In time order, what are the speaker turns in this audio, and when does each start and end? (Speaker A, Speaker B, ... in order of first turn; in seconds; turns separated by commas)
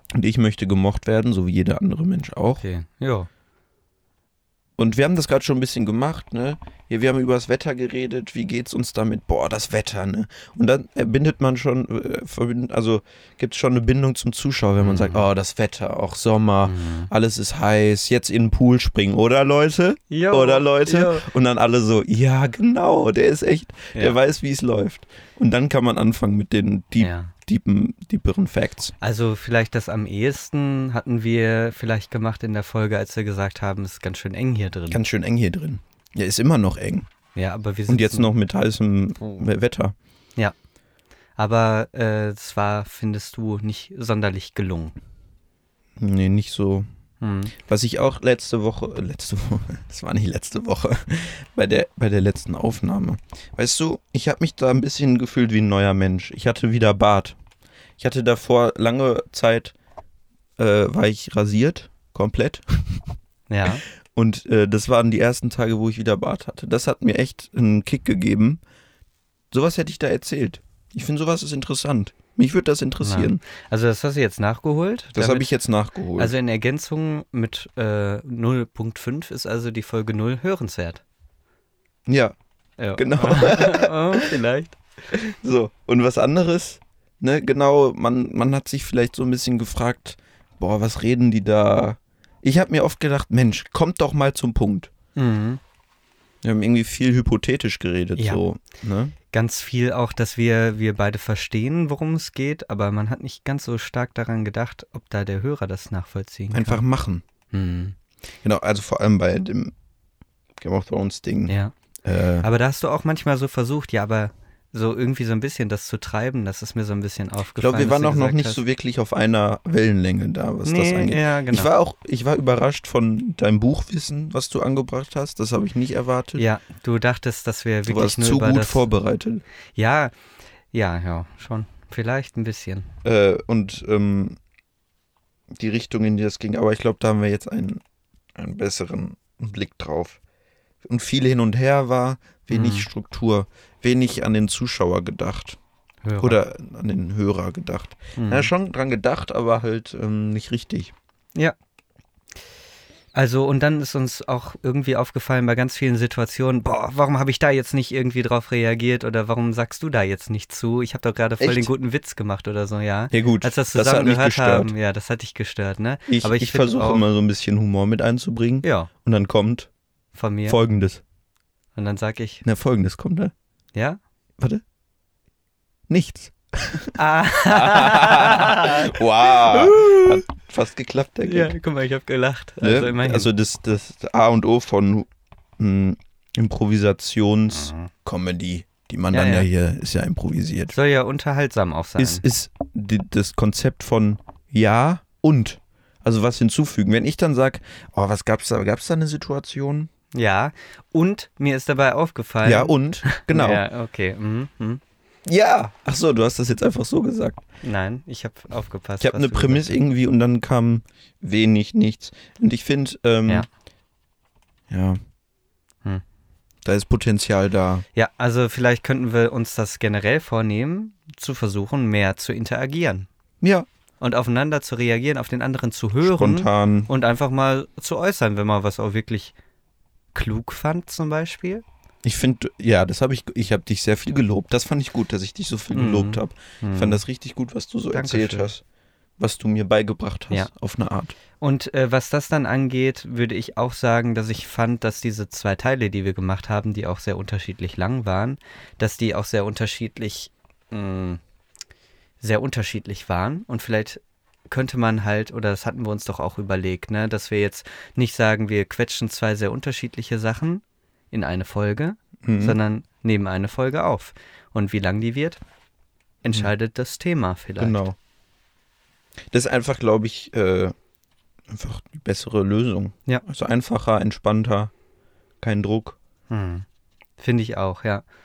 Speaker A: 0.1-2.6, Speaker B: 2.6-3.3, Speaker A: 4.8-28.9, Speaker B: 14.8-15.3, Speaker B: 16.6-17.1, Speaker B: 20.1-21.2, Speaker B: 27.0-27.3, Speaker B: 29.0-35.0, Speaker A: 34.9-37.1, Speaker B: 37.4-38.3, Speaker A: 37.9-39.9, Speaker B: 41.4-44.9, Speaker A: 46.0-46.9, Speaker B: 47.2-47.5, Speaker A: 47.6-57.4, Speaker A: 58.0-59.7, Speaker A: 60.6-63.0, Speaker B: 63.5-63.8, Speaker A: 64.1-68.6, Speaker A: 69.5-73.4, Speaker B: 73.0-75.5, Speaker A: 75.1-76.3, Speaker B: 76.2-81.0, Speaker A: 82.1-82.3, Speaker B: 82.8-84.8, Speaker A: 83.0-84.3, Speaker A: 85.1-94.9, Speaker B: 95.2-95.6, Speaker A: 96.4-99.1, Speaker B: 98.2-98.4, Speaker B: 99.3-106.8, Speaker A: 106.5-107.2, Speaker B: 107.5-107.9, Speaker A: 108.4-109.7, Speaker A: 110.6-112.5, Speaker B: 112.4-118.6, Speaker A: 117.5-126.4, Speaker B: 120.6-121.7, Speaker B: 126.4-128.9, Speaker A: 127.9-129.4, Speaker B: 129.8-130.1, Speaker B: 130.7-132.9, Speaker A: 133.0-134.4, Speaker A: 135.5-137.8, Speaker A: 138.3-140.2, Speaker A: 140.8-145.6, Speaker B: 142.5-142.9, Speaker B: 146.0-146.4, Speaker A: 146.2-150.9, Speaker B: 148.2-148.5, Speaker B: 153.1-167.1, Speaker A: 161.4-161.7, Speaker A: 163.1-164.7, Speaker A: 166.1-169.7, Speaker B: 168.6-168.9, Speaker B: 170.1-170.6, Speaker A: 170.4-171.0, Speaker B: 171.8-172.4, Speaker A: 172.4-173.3, Speaker A: 175.9-176.9, Speaker B: 177.0-180.2, Speaker A: 177.5-181.5, Speaker B: 181.2-183.3, Speaker A: 182.6-185.1, Speaker A: 185.6-190.7, Speaker B: 187.6-187.9, Speaker B: 189.1-189.5, Speaker B: 190.7-192.2, Speaker A: 192.0-199.9, Speaker B: 200.1-204.8, Speaker A: 202.4-203.6, Speaker A: 205.2-207.4, Speaker B: 207.6-209.8, Speaker A: 209.0-213.4, Speaker A: 214.7-215.0, Speaker A: 216.6-217.8, Speaker B: 217.9-223.1, Speaker A: 223.4-223.7, Speaker B: 224.0-229.3, Speaker A: 226.0-226.9, Speaker B: 230.1-231.6, Speaker A: 232.0-238.6, Speaker B: 235.7-237.0, Speaker B: 237.9-238.5, Speaker A: 239.2-241.1, Speaker B: 241.4-251.2, Speaker B: 252.2-265.4, Speaker A: 262.2-262.6, Speaker B: 266.2-267.8, Speaker A: 266.2-266.5, Speaker A: 267.6-267.9, Speaker A: 269.3-270.7, Speaker A: 271.5-274.7, Speaker A: 275.4-276.0, Speaker B: 276.3-276.6, Speaker B: 277.2-278.0